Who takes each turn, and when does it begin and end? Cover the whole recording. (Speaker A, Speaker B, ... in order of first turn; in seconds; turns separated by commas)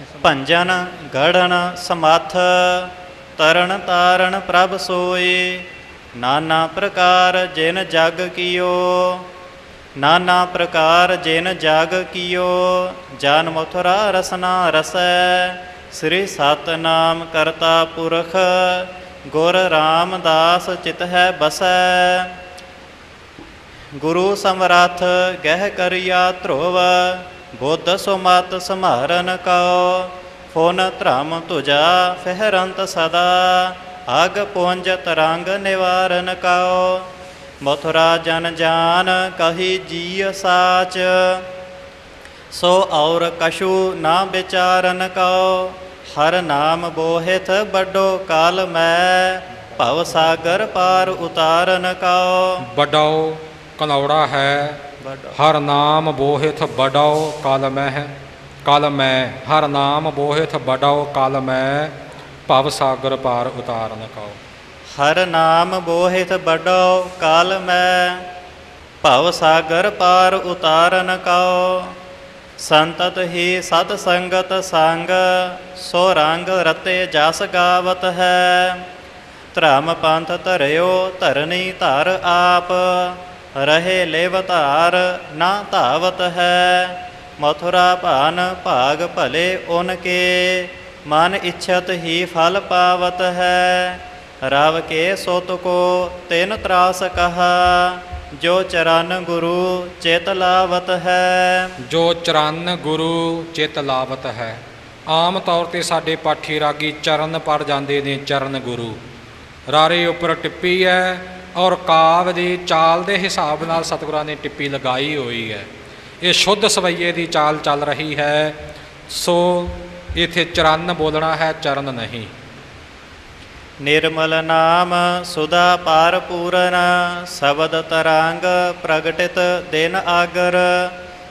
Speaker A: 0.2-9.3, Speaker A: 10.0-22.4, Speaker A: 24.0-37.1, Speaker A: 37.6-41.5, Speaker A: 42.5-52.6, Speaker B: 52.6-54.8, Speaker A: 55.0-55.4, Speaker B: 55.4-58.1, Speaker B: 58.7-62.0, Speaker B: 62.5-64.4, Speaker A: 65.0-68.3, Speaker A: 69.0-72.0, Speaker A: 72.6-78.9, Speaker A: 79.5-101.8, Speaker B: 101.9-109.0, Speaker B: 109.7-115.7, Speaker B: 116.2-118.6, Speaker B: 119.1-122.3, Speaker A: 123.8-130.9